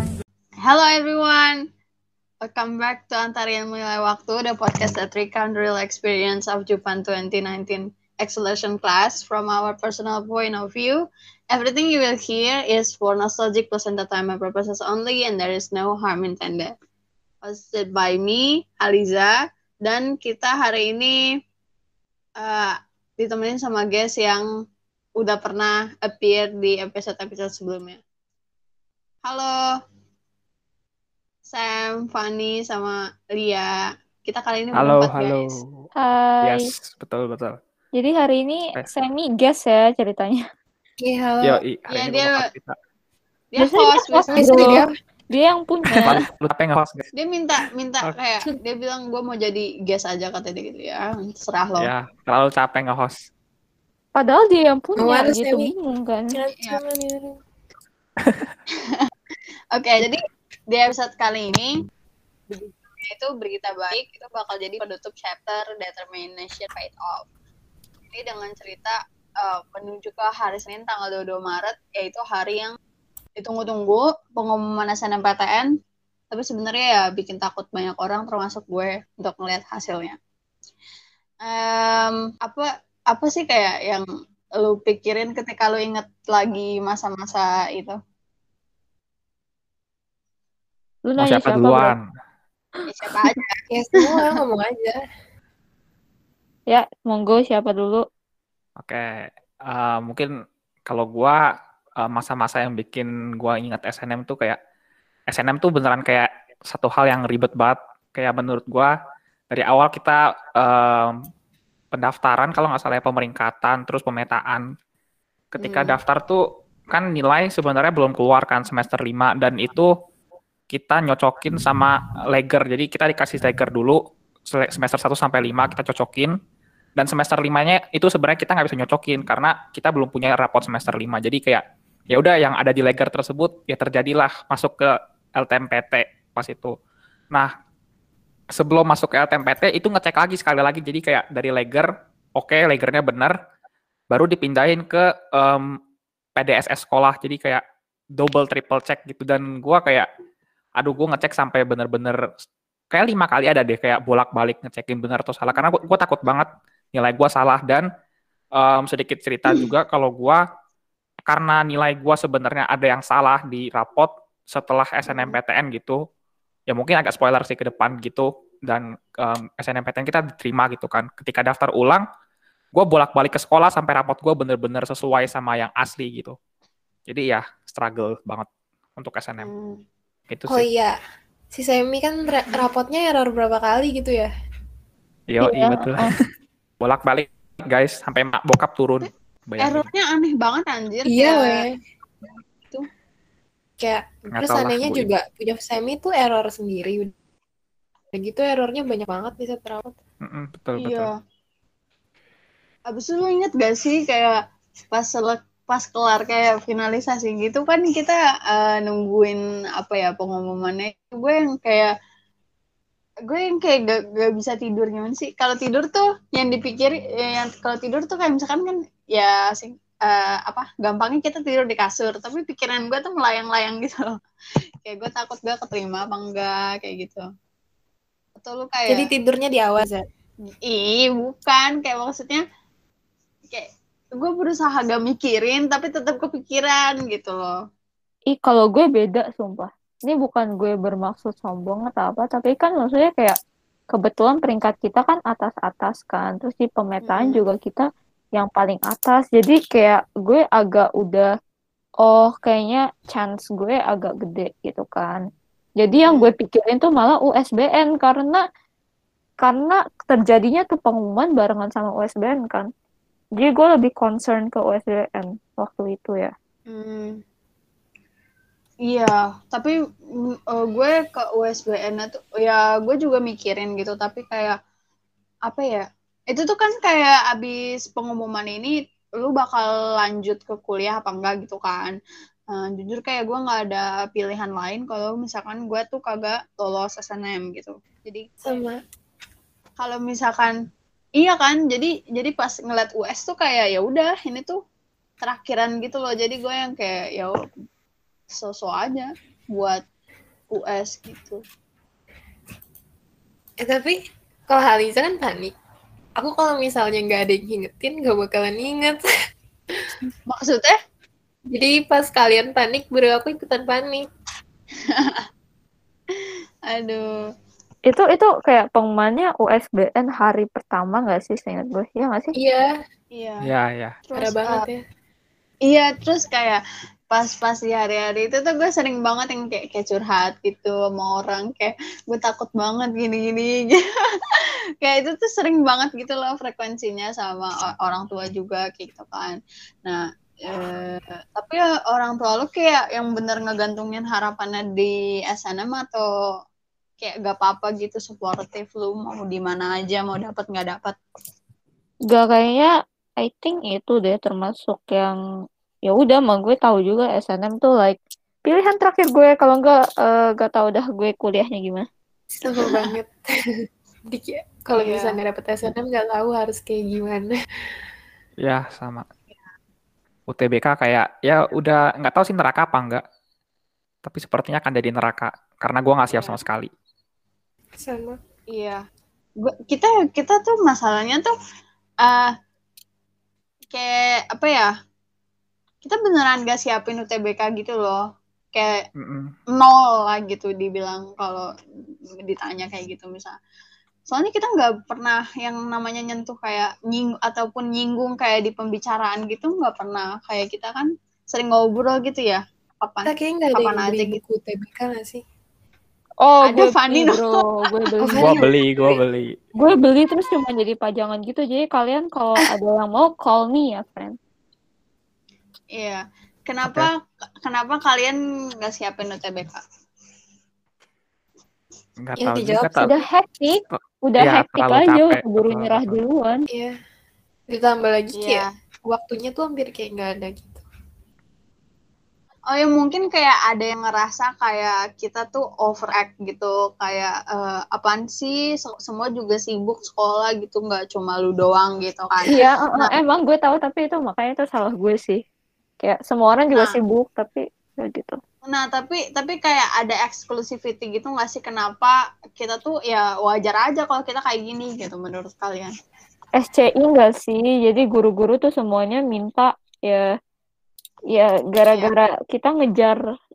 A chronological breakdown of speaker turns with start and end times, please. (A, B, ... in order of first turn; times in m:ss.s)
0:00.6-0:01.7 A
0:02.4-0:16.7 A
0:17.4-0:21.2 A
0:22.4-0:24.5 A
0:25.2-0:28.0 A
0:29.2-0:29.6 A
0:31.5-0:35.6 A
0:34.8-0:35.9 B
0:36.0-0:36.7 C
0:36.4-0:37.6 B
0:37.9-0:40.4 C
0:41.0-0:41.6 D
0:41.4-0:42.8 B
0:41.9-0:42.5 A
0:43.5-0:44.8 A
0:43.6-0:46.2 C
0:44.3-0:44.9 D
0:46.0-0:47.0 B
0:47.2-0:51.9 A
0:51.8-0:53.2 B
0:54.2-0:56.3 C
0:55.0-0:55.7 D
0:56.3-0:57.4 D
0:58.2-0:58.5 B
0:59.7-1:01.7 A
1:02.5-1:07.3 A
1:08.1-1:12.8 A
1:13.4-1:15.7 A
1:16.3-1:20.2 A
1:21.4-1:24.1 A
1:24.6-1:28.0 A
1:31.1-1:32.0 C
1:31.2-1:32.0 B
1:32.9-1:34.2 A
1:33.7-1:35.0 D
1:36.7-1:38.0 C
1:38.8-1:40.3 B
1:40.9-1:41.4 B
1:42.0-1:44.6 B
1:45.3-1:48.9 B
1:49.5-1:51.2 B
1:51.9-1:54.6 B
1:55.5-1:59.9 B
1:55.6-1:56.0 A
2:00.7-2:04.0 B
2:04.5-2:06.3 B
2:07.0-2:16.8 B
2:18.6-2:23.4 B
2:24.1-2:25.7 B
2:26.4-2:27.6 B
2:28.2-2:30.1 B
2:30.8-2:32.2 B
2:32.9-2:37.8 B
2:38.6-2:40.4 B
2:41.3-2:46.0 B
2:45.1-2:45.4 A
2:46.7-2:52.0 B
2:52.7-2:56.4 B
2:57.1-2:59.5 B
2:59.4-2:59.8 A
3:00.3-3:00.7 B
3:00.5-3:01.0 D
3:01.5-3:04.3 D
3:05.3-3:06.1 B
3:05.4-3:06.1 C
3:06.8-3:09.9 B
3:09.6-3:11.6 A
3:11.1-3:11.8 D
3:12.2-3:12.9 A
3:13.8-3:17.1 D
3:14.3-3:15.1 B
3:18.1-3:20.0 D
3:20.2-3:21.1 B
3:20.8-3:21.2 A
3:22.9-3:31.9 A
3:33.3-3:44.2 A
3:44.8-3:47.2 A
3:48.4-3:49.1 A
3:48.9-3:50.0 D
3:50.6-3:52.4 A
3:54.2-3:57.5 A
3:58.3-4:03.4 C
4:03.9-4:07.8 C
4:07.1-4:07.4 A
4:08.4-4:11.3 C
4:12.0-4:15.2 C
4:15.8-4:18.4 C
4:19.4-4:22.7 C
4:23.4-4:26.3 C
4:26.7-4:27.2 A
4:28.9-4:34.6 A
4:35.5-4:42.0 A
4:42.5-4:48.3 A
4:48.4-4:48.8 D
4:49.8-4:50.6 A
4:51.2-4:54.6 A
4:55.2-4:57.4 A
4:58.3-4:59.8 A
5:00.5-5:01.4 A
5:03.6-5:05.6 D
5:06.2-5:09.0 D
5:10.3-5:10.8 A
5:11.5-5:14.1 D
5:14.9-5:15.3 A
5:16.1-5:17.2 A
5:17.9-5:22.3 C
5:22.4-5:22.7 D
5:23.1-5:23.5 A
5:23.4-5:24.0 B
5:24.0-5:24.7 A
5:24.2-5:24.8 D
5:25.7-5:46.1 A
5:47.0-5:51.0 A
5:52.1-5:55.2 C
5:55.9-6:01.9 C
6:02.3-6:03.2 D
6:02.6-6:02.9 A
6:04.1-6:07.3 D
6:04.8-6:05.2 A
6:08.4-6:09.0 B
6:10.3-6:13.0 B
6:14.0-6:16.7 B
6:16.1-6:16.4 A
6:17.8-6:18.2 D
6:18.5-6:18.8 A
6:19.4-6:21.3 A
6:22.0-6:22.3 A
6:23.7-6:24.7 A
6:25.8-6:28.0 A
6:28.5-6:28.8 A
6:29.0-6:29.3 B
6:29.5-6:31.5 A
6:32.2-6:33.4 A
6:34.1-6:44.2 A
6:43.0-6:45.2 D
6:46.2-6:48.4 C
6:46.4-6:47.3 A
6:48.0-6:48.5 D
6:48.2-6:49.3 B
6:48.7-6:49.0 A
6:49.6-6:54.2 C
6:55.7-6:59.6 A
6:56.6-6:56.9 B
7:02.0-7:02.9 B
7:02.2-7:03.0 D
7:02.8-7:06.4 C
7:03.7-7:06.0 B
7:06.5-7:06.8 D
7:07.5-7:10.6 D
7:08.2-7:08.5 A
7:12.5-7:22.9 A
7:22.3-7:25.2 C
7:25.8-7:28.2 C
7:28.5-7:35.7 A
7:36.4-7:40.0 C
7:41.1-7:43.0 C